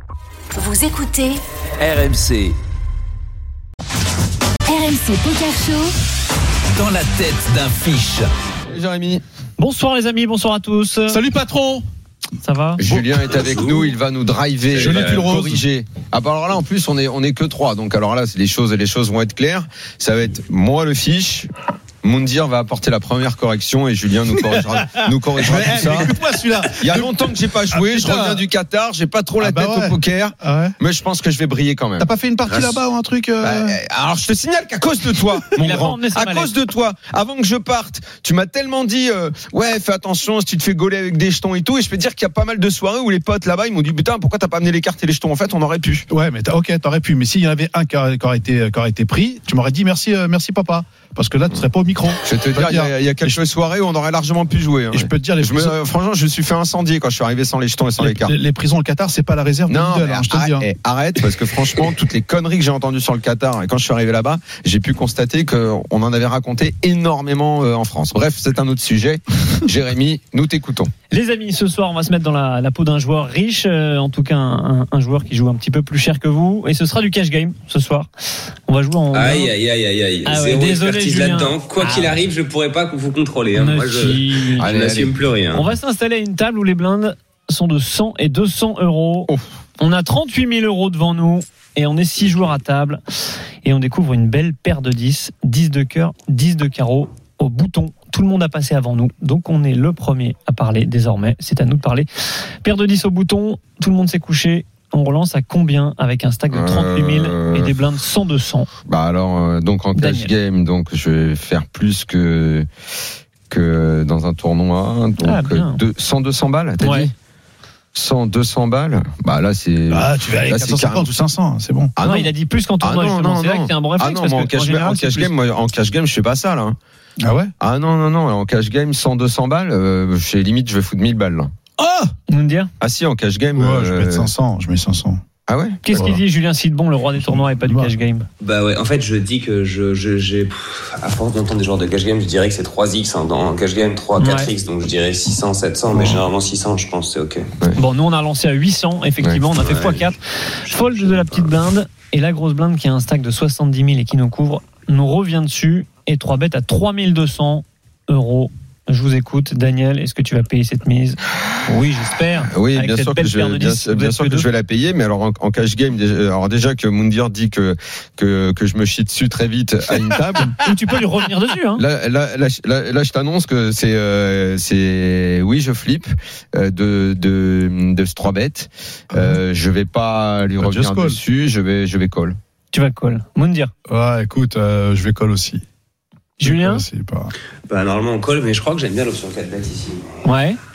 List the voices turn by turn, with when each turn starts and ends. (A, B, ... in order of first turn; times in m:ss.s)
0:00.6-0:01.3 A
0:01.8-0:02.5 B
0:04.7-0:05.9 A
0:06.7-0:08.3 B
0:08.7-0:09.2 C
0:09.6-0:11.2 D
0:11.1-0:11.8 E
0:12.4-0:12.8 D
0:12.8-0:21.5 C
0:12.8-0:13.1 E
0:13.3-0:13.9 F
0:14.7-0:15.2 F
0:14.8-0:15.6 E
0:22.0-0:26.1 C
0:24.9-0:27.1 E
0:26.7-0:32.1 C
0:27.7-0:28.4 E
0:29.4-0:30.7 E
0:32.0-0:33.8 E
0:33.4-0:46.1 C
0:35.6-0:36.5 D
0:46.1-0:53.4 E
0:52.2-0:58.3 C
0:54.9-0:55.8 E
0:58.0-1:00.7 E
0:59.7-1:10.9 C
1:11.1-1:18.1 D
1:18.6-1:19.5 D
1:19.1-1:25.7 F
1:20.2-1:22.2 D
1:23.5-1:24.7 D
1:24.6-1:25.1 C
1:25.5-1:33.0 D
1:33.6-1:42.1 D
1:42.6-1:48.7 D
1:46.5-1:47.8 C
1:48.9-1:52.7 C
1:49.9-1:50.3 D
1:53.5-1:57.1 C
1:55.2-1:55.8 D
1:56.8-1:57.1 D
1:57.9-2:01.1 C
1:59.9-2:01.9 E
2:02.0-2:06.8 C
2:02.0-2:05.3 D
2:07.2-2:07.5 E
2:07.6-2:11.5 C
2:11.8-2:12.1 E
2:12.3-2:12.7 D
2:12.8-2:14.3 C
2:13.6-2:15.2 E
2:15.5-2:15.8 C
2:15.8-2:18.2 D
2:15.9-2:16.2 E
2:17.2-2:17.9 E
2:18.4-2:27.5 F
2:24.2-2:24.5 D
2:25.9-2:26.2 E
2:27.8-2:44.5 D
2:29.5-2:30.1 F
2:30.6-2:31.5 F
2:42.4-2:50.6 C
2:50.6-2:51.8 D
2:51.8-3:02.4 C
2:59.1-2:59.4 E
3:00.6-3:01.2 E
3:02.7-3:03.7 D
3:03.9-3:05.6 E
3:06.4-3:06.8 D
3:06.4-3:07.3 E
3:07.7-3:10.2 F
3:10.2-3:10.6 D